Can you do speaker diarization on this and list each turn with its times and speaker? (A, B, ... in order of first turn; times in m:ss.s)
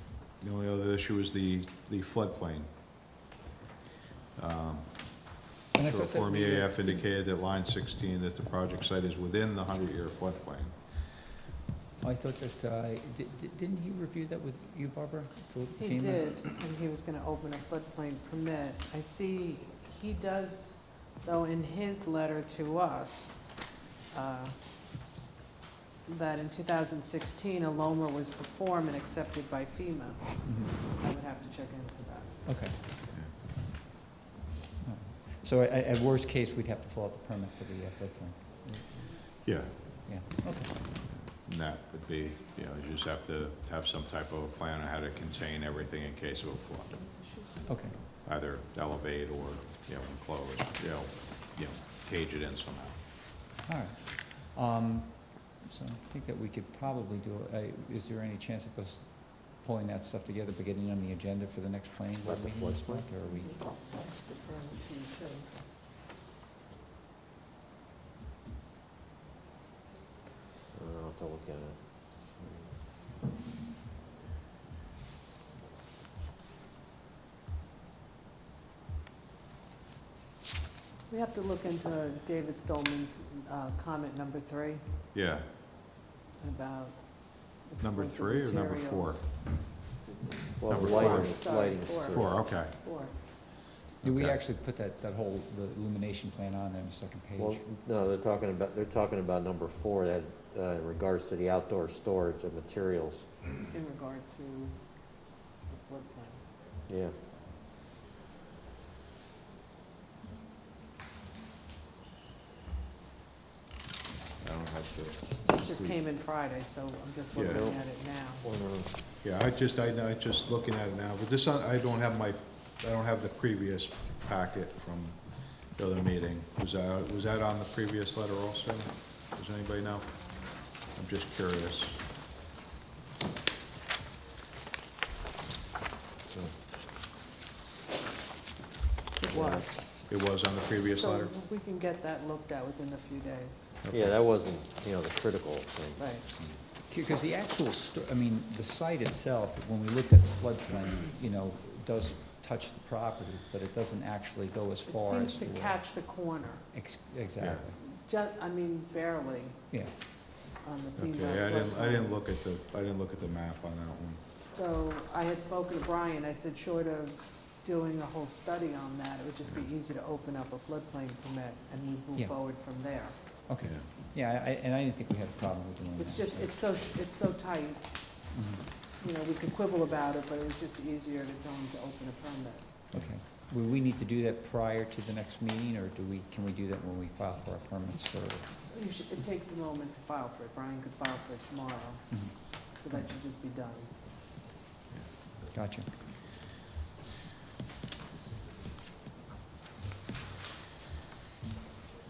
0:00.4-0:02.7 A
0:04.4-0:10.8 A
0:05.7-0:07.0 B
0:12.0-0:16.3 B
0:15.8-0:24.6 C
0:26.0-0:32.4 C
0:30.4-0:30.8 B
0:32.4-0:32.8 B
0:34.8-0:40.9 B
0:39.4-0:40.0 A
0:41.0-0:47.0 A
0:47.1-0:47.7 C
0:47.7-0:48.0 B
0:48.1-0:53.0 A
0:53.6-1:03.6 B
1:02.2-1:03.1 D
1:03.2-1:05.7 C
1:10.7-1:12.6 D
1:21.1-1:24.9 C
1:25.1-1:25.4 A
1:26.4-1:33.1 C
1:27.8-1:29.2 A
1:30.6-1:32.5 D
1:30.7-1:31.3 A
1:32.1-1:32.7 A
1:34.0-1:34.4 A
1:34.0-1:37.6 B
1:37.4-1:43.3 D
1:43.7-1:46.5 C
1:46.9-1:47.2 D
1:54.4-1:56.0 A
1:55.4-1:58.5 C
1:57.3-1:57.6 A
1:57.5-1:58.9 D
1:59.2-2:12.0 A
2:19.2-2:19.8 C
2:19.3-2:19.6 D
2:20.1-2:21.3 A
2:21.0-2:23.8 C
2:23.9-2:26.1 D
2:26.0-2:26.2 C
2:26.9-2:35.8 B
2:34.8-2:36.7 C
2:36.7-2:37.8 B
2:37.4-2:37.6 A
2:37.8-2:42.1 C
2:39.7-2:40.0 B
2:41.0-2:44.2 A
2:44.4-2:53.2 C
2:53.5-2:56.5 B
2:56.0-2:58.3 C
2:58.3-2:58.7 B
2:58.8-3:02.8 C
3:02.9-3:08.5 B
3:08.7-3:14.0 C
3:12.1-3:12.4 B
3:15.5-3:15.9 B